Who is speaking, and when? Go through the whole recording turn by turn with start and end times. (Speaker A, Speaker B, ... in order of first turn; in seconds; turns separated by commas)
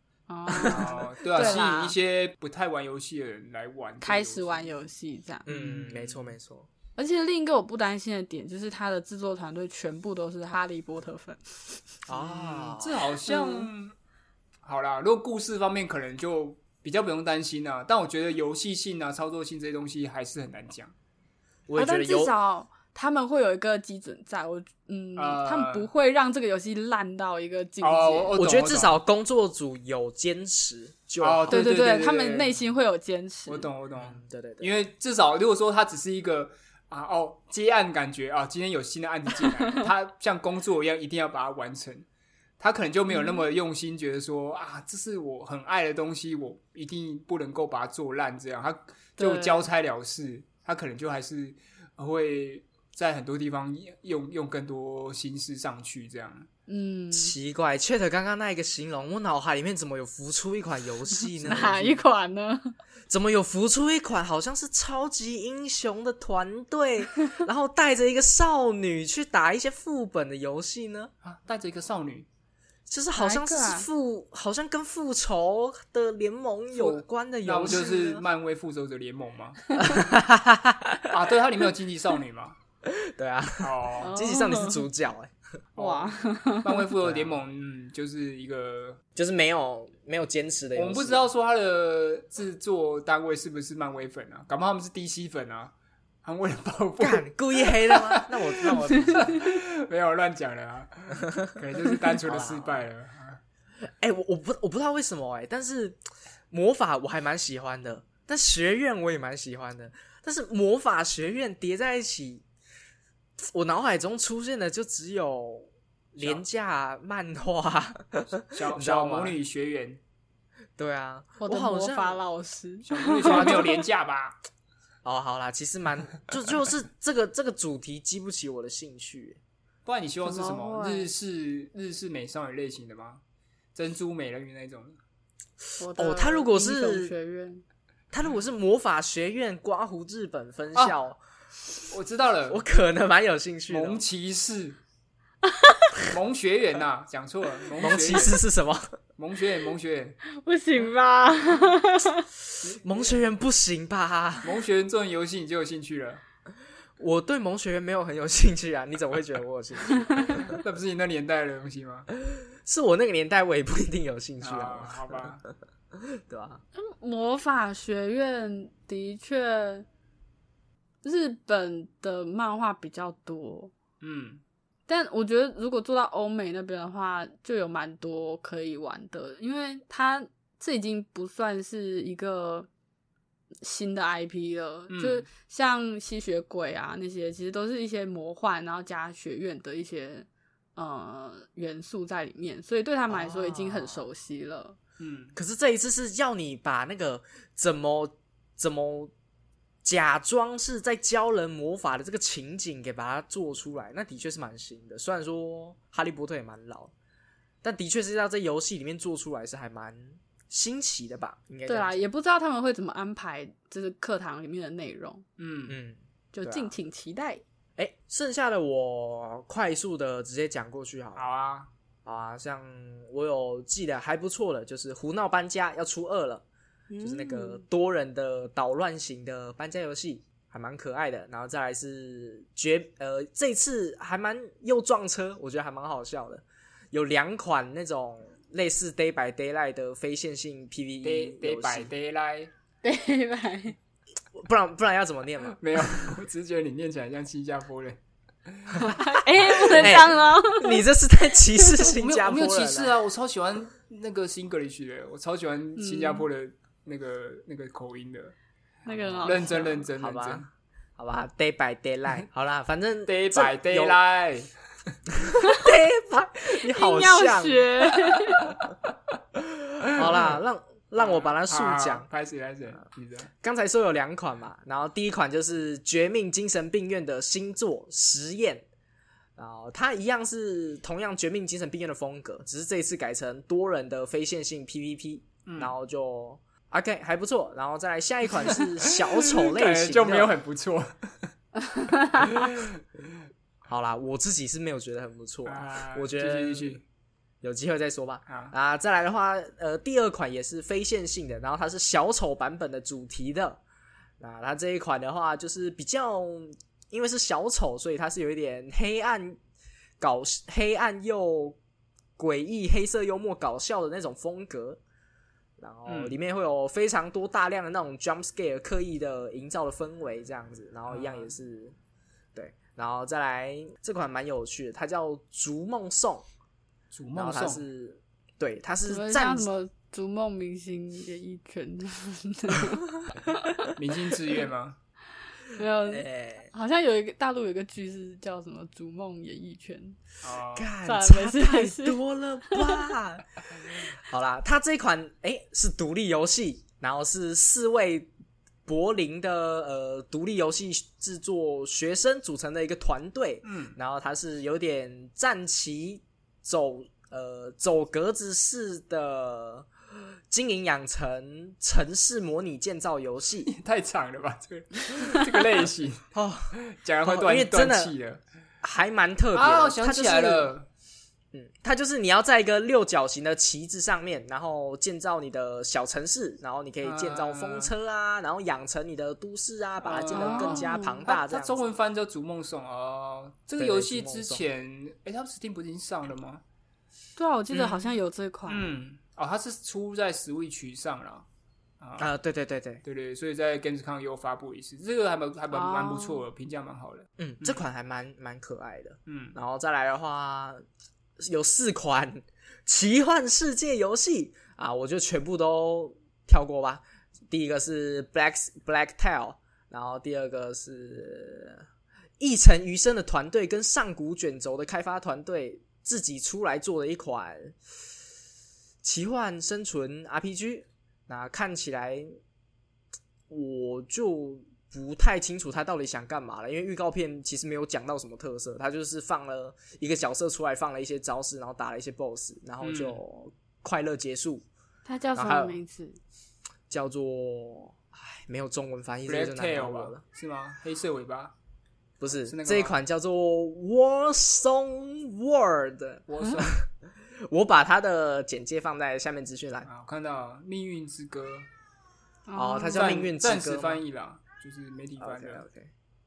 Speaker A: 0.3-2.0, Speaker B: 0.5-1.6, Speaker C: 0.6-4.7, Speaker A: 4.0-5.5, Speaker C: 5.5-6.3, Speaker B: 5.5-6.7, Speaker A: 7.0-11.8, Speaker B: 12.1-13.0, Speaker C: 12.1-13.9, Speaker A: 13.3-13.7, Speaker C: 14.6-20.9, Speaker B: 21.7-22.3, Speaker A: 21.8-28.4, Speaker C: 25.2-25.9, Speaker C: 27.8-29.0, Speaker B: 28.4-31.8, Speaker C: 31.2-32.5, Speaker A: 31.5-33.7, Speaker C: 33.5-42.0, Speaker B: 34.0-34.8, Speaker C: 42.6-56.5, Speaker A: 43.1-43.4, Speaker A: 49.2-49.7, Speaker A: 56.7-57.3, Speaker B: 57.1-62.0, Speaker A: 61.5-62.8, Speaker B: 63.1-71.1, Speaker C: 71.2-72.3, Speaker B: 72.9-78.2, Speaker A: 73.2-73.9, Speaker C: 76.7-79.7, Speaker A: 77.7-78.2, Speaker B: 79.8-81.2, Speaker C: 81.1-82.6, Speaker B: 82.8-85.3, Speaker C: 83.6-84.1, Speaker A: 84.0-84.8, Speaker C: 85.8-89.0, Speaker A: 85.8-86.9, Speaker B: 87.0-87.4, Speaker B: 89.2-91.2, Speaker C: 90.8-95.7, Speaker C: 96.2-103.4, Speaker B: 97.0-99.4, Speaker B: 102.2-102.9, Speaker B: 103.8-106.0, Speaker B: 106.5-112.5, Speaker B: 113.4-119.4, Speaker C: 118.5-120.0, Speaker B: 120.8-122.2, Speaker A: 121.4-123.7, Speaker C: 122.9-124.4, Speaker B: 123.3-123.6, Speaker B: 125.0-129.4, Speaker C: 129.9-133.2, Speaker A: 130.2-131.1, Speaker C: 133.8-135.0, Speaker A: 135.8-137.6, Speaker B: 135.9-137.1, Speaker B: 138.1-141.2, Speaker C: 141.9-142.6, Speaker B: 142.5-144.0, Speaker C: 143.7-144.8, Speaker A: 145.4-145.9, Speaker C: 146.1-148.4, Speaker B: 147.8-149.0, Speaker C: 149.2-150.2, Speaker A: 150.3-152.2, Speaker C: 152.6-153.3, Speaker B: 152.8-154.6, Speaker C: 154.4-156.2, Speaker B: 157.0-160.6, Speaker C: 160.4-162.1, Speaker B: 162.2-165.4, Speaker C: 164.4-165.4, Speaker B: 165.9-166.6, Speaker A: 166.8-169.9, Speaker A: 171.0-173.7, Speaker C: 174.0-174.4, Speaker A: 174.9-182.7, Speaker A: 183.6-194.8, Speaker C: 184.9-185.3, Speaker B: 193.1-194.1, Speaker C: 195.0-195.3, Speaker B: 195.3-199.1, Speaker B: 199.8-206.9, Speaker B: 207.6-211.9, Speaker A: 211.7-215.2, Speaker C: 215.4-215.8, Speaker B: 215.7-216.7, Speaker A: 216.3-217.4, Speaker B: 217.8-221.3, Speaker C: 221.2-221.7, Speaker B: 222.1-226.5, Speaker A: 226.9-227.6, Speaker B: 227.0-241.9, Speaker C: 241.0-242.5, Speaker A: 242.8-243.8, Speaker B: 244.3-246.1, Speaker C: 245.6-249.0, Speaker A: 248.8-250.8, Speaker B: 249.5-252.9, Speaker C: 251.8-258.3, Speaker A: 255.8-256.3, Speaker A: 258.9-259.9, Speaker B: 258.9-264.0, Speaker C: 259.2-260.5, Speaker C: 263.1-264.5, Speaker B: 265.1-267.7, Speaker A: 265.4-265.7, Speaker A: 266.6-268.6, Speaker C: 269.9-270.4, Speaker B: 269.9-272.1, Speaker C: 271.0-273.3, Speaker B: 273.4-278.7, Speaker B: 279.4-290.3, Speaker C: 285.5-285.7, Speaker C: 288.6-291.3, Speaker A: 291.6-292.5, Speaker C: 292.2-292.8, Speaker B: 293.7-296.8, Speaker C: 295.5-296.8, Speaker B: 297.4-303.6, Speaker C: 298.3-298.5, Speaker B: 304.2-309.4, Speaker B: 310.0-311.6, Speaker B: 312.2-314.8, Speaker B: 315.6-321.8, Speaker C: 315.9-316.2, Speaker C: 320.9-321.3, Speaker B: 322.4-326.3, Speaker C: 326.9-327.6, Speaker B: 327.1-329.5, Speaker A: 328.9-333.7, Speaker C: 333.8-334.8, Speaker A: 335.5-340.0, Speaker B: 335.9-336.5, Speaker C: 340.2-340.7, Speaker B: 340.6-348.1, Speaker A: 340.8-342.9, Speaker B: 348.6-359.7, Speaker C: 353.4-353.8, Speaker B: 360.3-363.5, Speaker C: 363.4-368.2, Speaker B: 366.1-367.9, Speaker B: 368.6-370.5, Speaker C: 369.3-370.7, Speaker B: 371.3-381.7, Speaker C: 376.8-377.7, Speaker C: 379.8-386.4, Speaker A: 380.1-381.1, Speaker B: 383.6-384.4, Speaker A: 387.2-388.8, Speaker C: 387.5-387.9, Speaker C: 388.5-391.3, Speaker C: 391.8-392.1, Speaker B: 392.0-392.8, Speaker C: 392.8-397.6, Speaker A: 395.5-396.2, Speaker B: 397.2-400.6, Speaker C: 399.1-399.4, Speaker B: 401.2-411.7, Speaker B: 412.2-417.6, Speaker B: 418.8-422.1, Speaker B: 423.3-434.5, Speaker C: 432.6-433.0, Speaker A: 434.9-436.0, Speaker B: 435.1-435.6, Speaker B: 436.7-440.0, Speaker C: 439.1-441.3, Speaker B: 442.0-446.7, Speaker C: 442.3-442.8, Speaker C: 446.1-446.6, Speaker B: 447.2-449.7, Speaker C: 449.7-451.5, Speaker A: 452.3-453.0, Speaker B: 452.4-453.8, Speaker C: 452.8-455.4, Speaker B: 455.0-455.7